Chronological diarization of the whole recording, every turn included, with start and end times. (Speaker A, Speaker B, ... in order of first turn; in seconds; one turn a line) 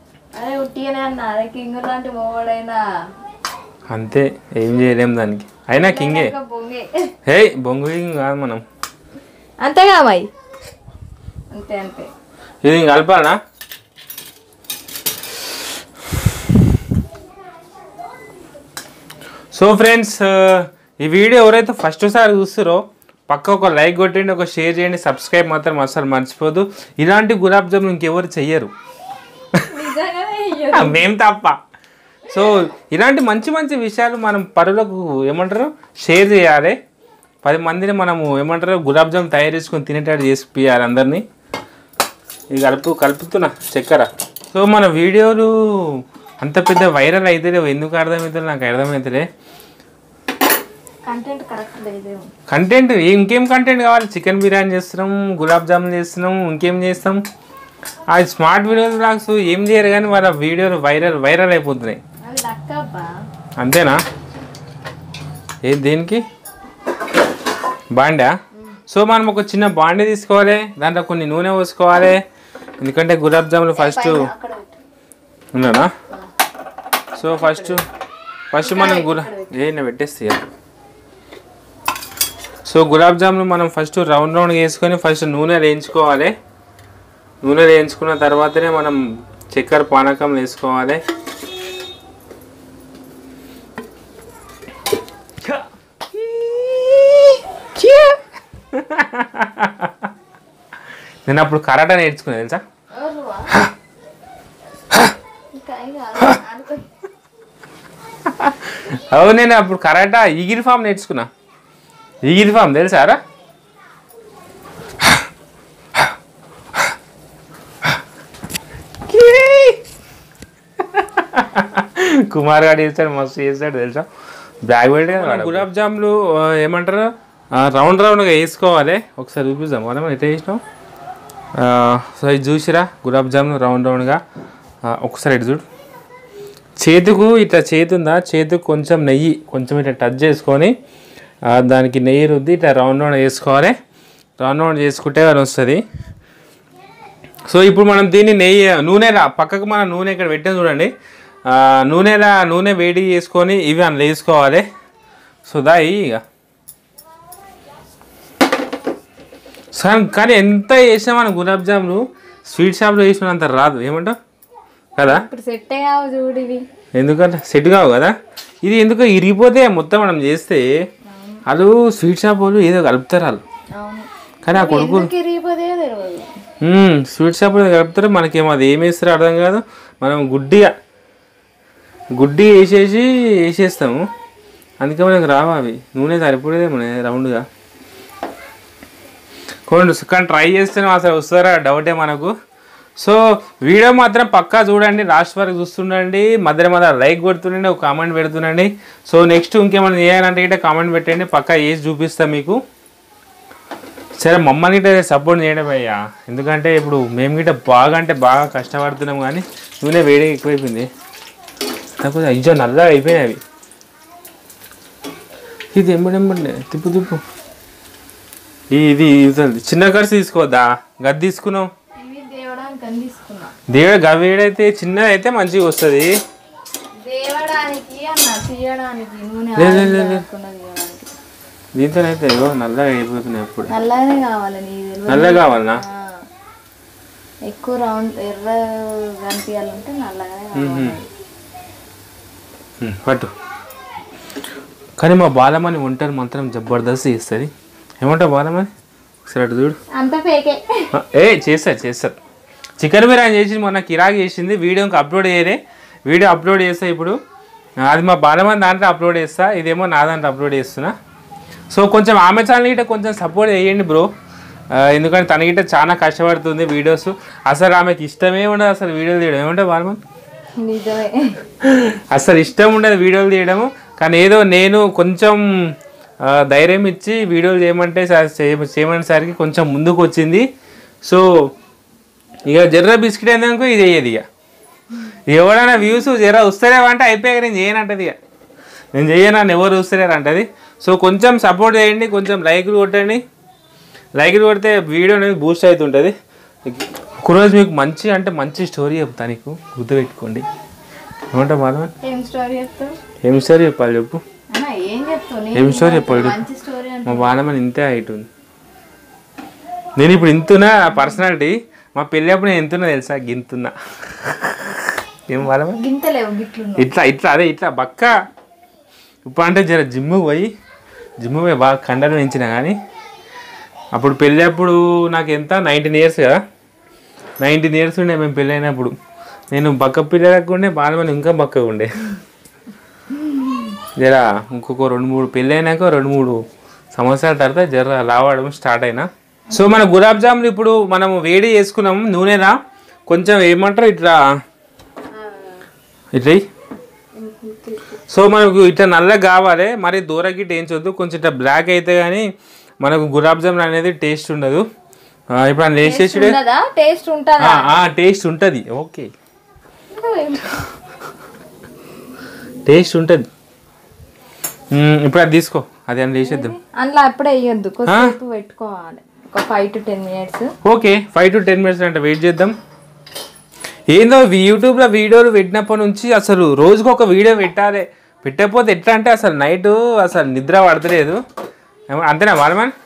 Speaker A: 0.3-2.9
Speaker B: 3.9-6.3
Speaker A: 5.7-7.1
Speaker B: 7.3-8.6
Speaker A: 9.6-10.3
Speaker A: 11.5-12.1
Speaker B: 12.7-13.4
Speaker B: 19.5-28.7
Speaker A: 29.6-31.0
Speaker B: 30.7-31.6
Speaker B: 32.3-36.8
Speaker B: 37.4-41.2
Speaker B: 42.5-45.5
Speaker B: 46.4-49.3
Speaker A: 51.1-52.3
Speaker B: 52.5-57.2
Speaker B: 58.1-62.0
Speaker A: 62.2-63.1
Speaker B: 63.6-64.0
Speaker B: 65.6-66.2
Speaker B: 67.9-68.3
Speaker B: 68.9-72.2
Speaker B: 72.8-74.2
Speaker A: 73.8-74.8
Speaker B: 75.5-75.9
Speaker B: 77.2-77.8
Speaker A: 77.2-77.8
Speaker B: 78.5-80.4
Speaker A: 78.6-79.5
Speaker B: 82.7-86.3
Speaker B: 87.4-89.0
Speaker B: 89.5-91.0
Speaker B: 98.7-100.1
Speaker B: 101.3-102.6
Speaker A: 103.0-103.5
Speaker A: 105.6-106.9
Speaker B: 108.3-111.3
Speaker B: 112.2-113.2
Speaker B: 119.1-119.8
Speaker B: 120.9-124.1
Speaker B: 124.7-130.6
Speaker A: 125.2-125.5
Speaker B: 131.6-134.2
Speaker B: 134.9-135.6
Speaker B: 136.8-140.7
Speaker B: 141.5-143.7
Speaker B: 144.4-145.8
Speaker B: 147.5-150.9
Speaker B: 151.5-154.7
Speaker B: 155.5-156.2
Speaker B: 159.7-164.2
Speaker B: 165.0-165.2
Speaker A: 165.0-166.7
Speaker B: 167.0-170.7
Speaker A: 171.1-171.4
Speaker B: 171.5-173.4
Speaker A: 173.8-176.3
Speaker B: 174.4-175.1
Speaker B: 176.6-180.7
Speaker B: 182.2-184.0
Speaker B: 184.8-187.4
Speaker B: 189.7-192.3
Speaker B: 193.0-202.6
Speaker B: 204.2-210.9
Speaker B: 212.0-213.4
Speaker B: 215.7-217.2
Speaker B: 218.7-221.7
Speaker A: 222.0-223.5
Speaker B: 223.7-226.1
Speaker A: 227.1-231.1
Speaker B: 229.6-230.2
Speaker B: 231.8-233.7
Speaker A: 233.7-236.0
Speaker B: 235.1-235.8
Speaker A: 237.5-241.1
Speaker B: 240.6-240.9
Speaker B: 242.8-243.3
Speaker B: 245.0-247.5
Speaker B: 248.0-248.7
Speaker B: 249.3-249.8
Speaker A: 249.9-250.6
Speaker B: 251.0-252.2
Speaker B: 252.8-257.2
Speaker B: 257.9-260.9
Speaker B: 261.7-264.1
Speaker B: 264.7-270.0
Speaker A: 270.6-271.3
Speaker B: 271.6-275.4
Speaker B: 276.3-280.5
Speaker B: 282.5-284.2
Speaker B: 285.3-288.1
Speaker B: 288.9-293.2
Speaker B: 294.2-296.1
Speaker B: 296.7-300.4
Speaker B: 301.3-301.9
Speaker A: 302.0-302.9
Speaker B: 303.2-304.2
Speaker A: 304.5-307.4
Speaker B: 305.6-306.4
Speaker B: 307.1-308.3
Speaker B: 310.0-315.8
Speaker A: 315.7-316.9
Speaker B: 316.8-318.1
Speaker B: 319.3-320.5
Speaker B: 321.2-322.8
Speaker B: 323.9-326.4
Speaker B: 327.4-328.9
Speaker B: 329.5-331.9
Speaker B: 334.0-336.4
Speaker B: 336.9-342.6
Speaker A: 339.5-339.8
Speaker B: 343.1-344.2
Speaker A: 345.1-345.6
Speaker B: 346.1-346.4
Speaker A: 347.2-348.0
Speaker B: 348.1-352.2
Speaker B: 352.8-354.6
Speaker B: 355.4-356.4
Speaker A: 355.8-357.7
Speaker B: 357.4-359.1
Speaker A: 359.9-360.7
Speaker B: 362.7-363.3
Speaker B: 364.7-366.6
Speaker A: 366.2-370.5
Speaker B: 367.9-368.1
Speaker B: 370.6-372.6
Speaker B: 373.9-381.2
Speaker B: 381.9-382.7